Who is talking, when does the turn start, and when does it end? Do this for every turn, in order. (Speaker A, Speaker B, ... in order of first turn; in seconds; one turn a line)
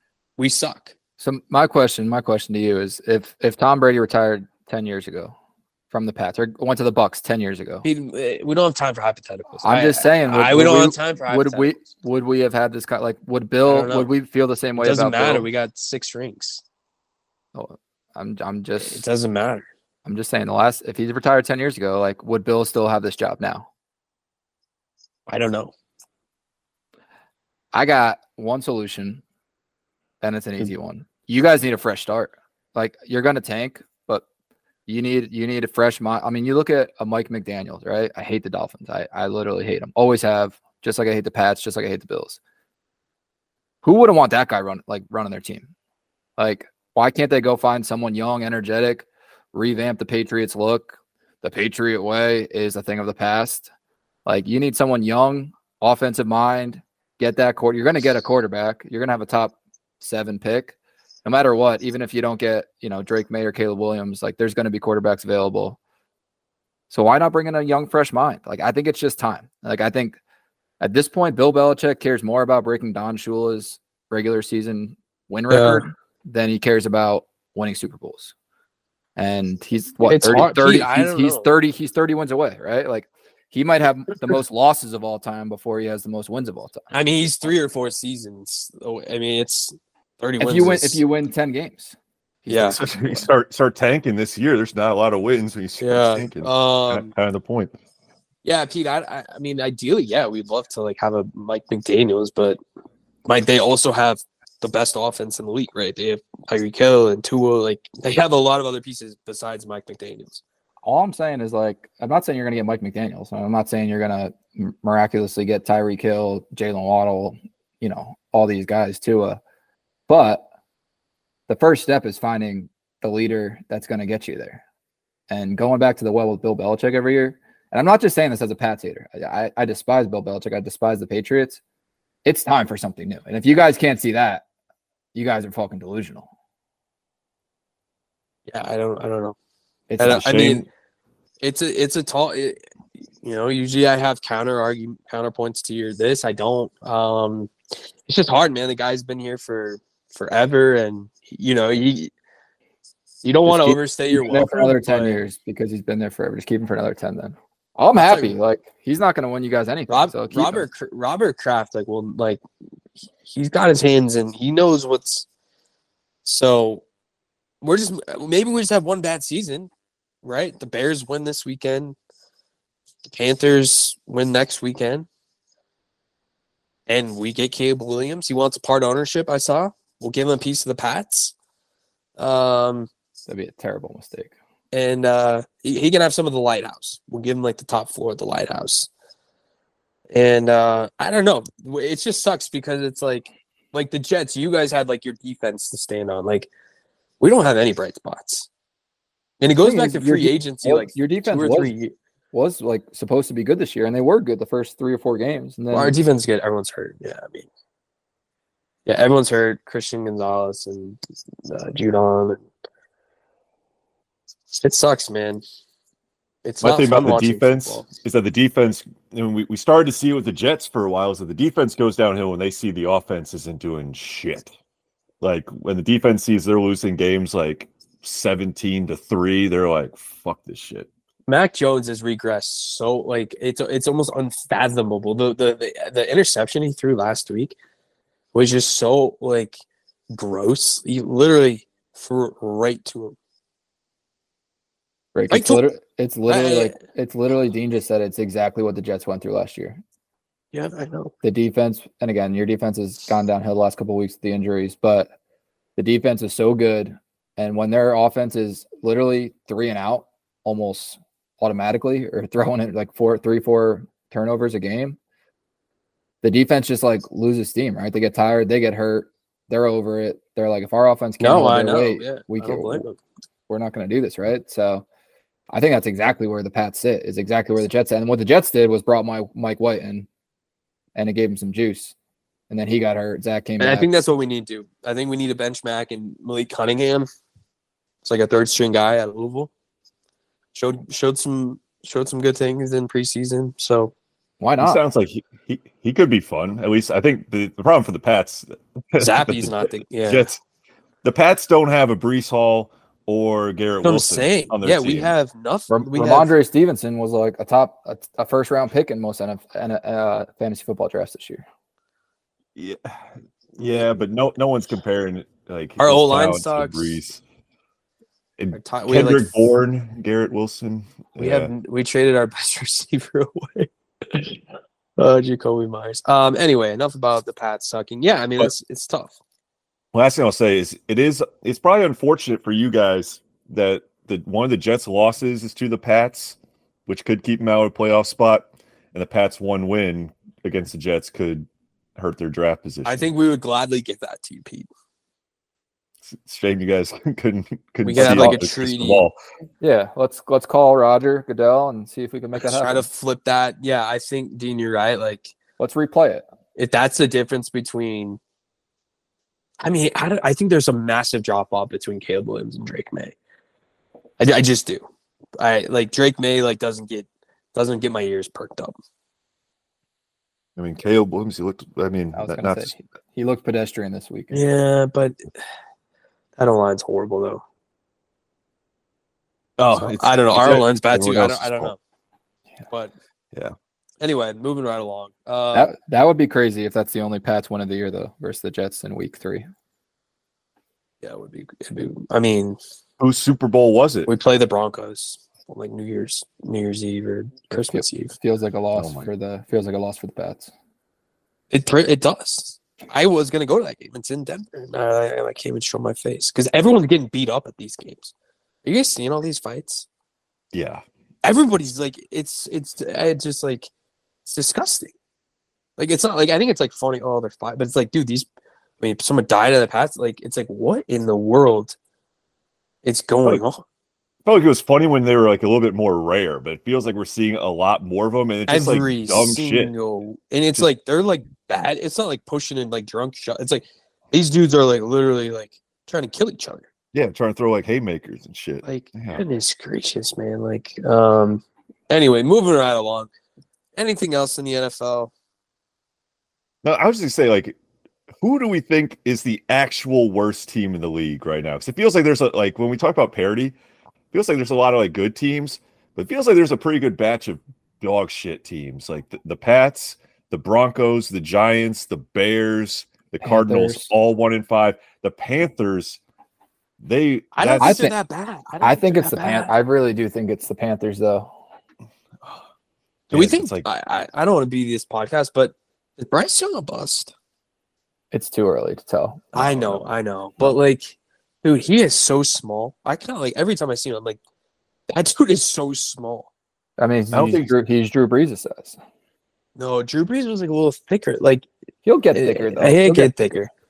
Speaker A: 0.4-0.9
Speaker B: 1.2-5.3
Speaker B: 5.9-7.8
Speaker A: 7.8-11.7
Speaker B: 9.6-15.5
Speaker A: 13.7-14.1
Speaker A: 14.8-16.6
Speaker B: 17.5-19.1
Speaker A: 18.8-19.6
Speaker B: 20.0-23.7
Speaker A: 25.3-25.7
Speaker B: 27.7-29.2
Speaker B: 30.2-34.2
Speaker B: 34.9-42.4
Speaker B: 43.8-45.7
Speaker B: 46.4-53.7
Speaker B: 54.2-65.8
Speaker B: 66.9-70.2
Speaker B: 70.8-78.3
Speaker A: 75.5-75.9
Speaker B: 79.2-86.9
Speaker A: 80.0-81.5
Speaker A: 86.9-91.0
Speaker B: 90.4-93.2
Speaker A: 92.5-92.8
Speaker C: 92.7-97.7
Speaker A: 95.8-97.1
Speaker A: 98.4-102.6
Speaker A: 103.2-110.4
Speaker B: 110.8-119.4
Speaker B: 120.1-120.5
Speaker B: 121.5-124.6
Speaker B: 125.3-131.6
Speaker B: 132.2-134.4
Speaker B: 135.1-136.3
Speaker A: 138.5-139.3
Speaker B: 139.9-140.6
Speaker A: 140.0-140.7
Speaker A: 141.4-142.6
Speaker A: 143.2-147.5
Speaker A: 148.1-152.1
Speaker A: 153.2-155.2
Speaker B: 153.4-160.7
Speaker A: 157.9-158.3
Speaker A: 159.9-162.4
Speaker A: 163.3-165.2
Speaker A: 166.2-166.8
Speaker A: 167.6-169.7
Speaker A: 170.2-171.9
Speaker A: 173.1-175.1
Speaker A: 176.9-181.3
Speaker A: 182.2-182.9
Speaker B: 183.3-184.3
Speaker A: 184.7-188.9
Speaker A: 190.1-196.5
Speaker A: 197.2-198.5
Speaker A: 199.4-201.9
Speaker B: 199.6-201.7
Speaker B: 202.3-206.0
Speaker A: 205.7-207.5
Speaker A: 208.8-212.4
Speaker A: 214.5-215.4
Speaker A: 216.4-217.9
Speaker C: 216.6-224.5
Speaker C: 225.2-230.9
Speaker A: 231.3-237.6
Speaker A: 238.3-239.6
Speaker A: 240.1-243.2
Speaker B: 245.1-249.8
Speaker A: 245.3-245.6
Speaker A: 246.3-246.8
Speaker A: 250.5-251.1
Speaker B: 251.2-255.1
Speaker B: 255.8-265.0
Speaker B: 266.2-272.9
Speaker A: 271.2-273.0
Speaker B: 273.5-274.8
Speaker B: 275.5-280.1
Speaker B: 280.9-281.9
Speaker B: 282.5-283.9
Speaker A: 283.6-287.1
Speaker A: 288.0-289.5
Speaker A: 290.5-293.9
Speaker B: 294.4-294.8
Speaker C: 294.6-300.4
Speaker A: 299.0-300.3
Speaker C: 301.0-305.1
Speaker A: 303.8-306.3
Speaker B: 305.7-311.4
Speaker C: 312.5-317.2
Speaker A: 315.8-317.0
Speaker C: 318.4-321.5
Speaker A: 318.5-319.4
Speaker A: 321.2-324.4
Speaker A: 325.0-329.1
Speaker C: 329.9-343.1
Speaker A: 342.8-344.7
Speaker C: 346.0-349.1
Speaker A: 347.8-349.1
Speaker B: 348.0-348.4
Speaker B: 349.6-352.9
Speaker A: 352.4-355.3
Speaker B: 355.6-356.2
Speaker A: 356.6-358.2
Speaker A: 359.6-363.1
Speaker A: 364.2-364.8
Speaker A: 365.4-368.8
Speaker C: 370.6-372.7
Speaker B: 372.1-374.5
Speaker A: 374.3-375.3
Speaker A: 376.4-377.4
Speaker A: 379.6-381.8
Speaker C: 379.7-381.7
Speaker A: 384.0-385.7
Speaker B: 385.5-389.5
Speaker A: 391.0-392.6
Speaker C: 393.0-394.1
Speaker A: 394.1-398.1
Speaker B: 397.5-400.5
Speaker C: 398.7-399.1
Speaker A: 401.5-408.1
Speaker A: 408.6-409.9
Speaker C: 410.5-410.8
Speaker A: 411.2-413.7
Speaker A: 414.2-414.9
Speaker A: 415.8-418.3
Speaker A: 418.8-421.8
Speaker A: 422.8-423.6
Speaker C: 424.2-429.7
Speaker A: 428.5-436.7
Speaker C: 436.9-439.2
Speaker A: 438.6-443.1
Speaker A: 443.8-445.1
Speaker C: 446.6-447.6
Speaker C: 448.2-453.6
Speaker C: 454.1-466.0
Speaker B: 463.2-463.9
Speaker C: 466.8-467.8
Speaker A: 467.3-469.5
Speaker B: 467.6-467.9
Speaker B: 468.6-471.3
Speaker C: 473.1-473.6
Speaker A: 473.1-477.1
Speaker B: 478.1-479.8
Speaker A: 479.3-484.2
Speaker A: 484.9-486.3
Speaker B: 486.8-488.8
Speaker C: 487.1-487.5
Speaker A: 489.6-491.5
Speaker B: 491.8-493.1
Speaker A: 492.1-493.5